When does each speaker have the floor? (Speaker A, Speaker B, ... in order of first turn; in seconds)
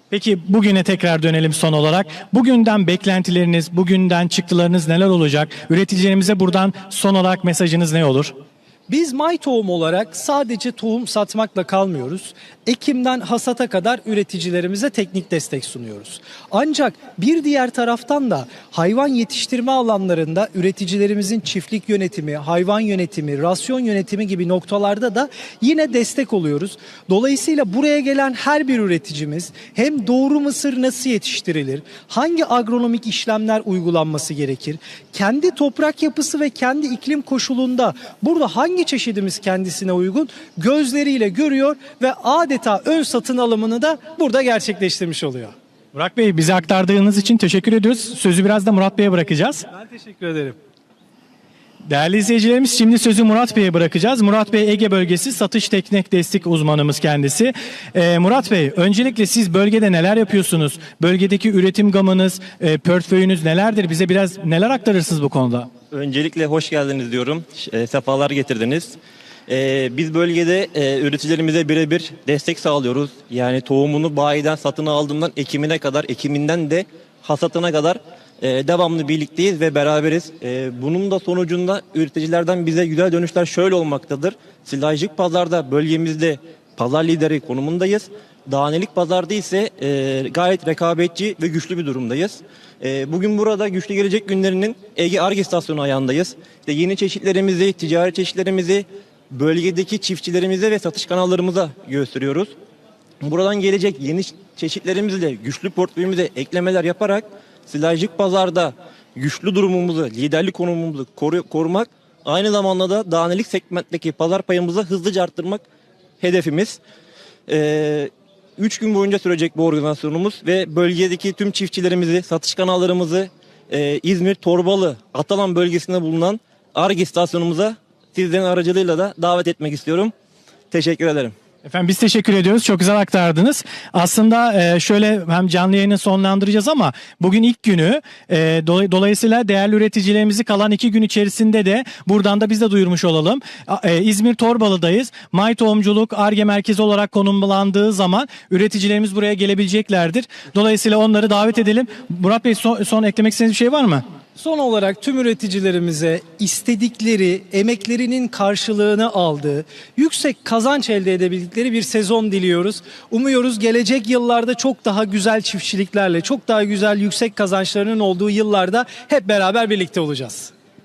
Speaker A: 0.1-8.3, 45.9-49.6, 51.8-65.7, 131.6-154.0
Speaker B: 8.9-45.5, 49.7-50.6, 154.3-170.5
Speaker C: 65.9-102.5, 103.2-115.6, 116.2-116.8, 117.5-130.1, 130.7-131.3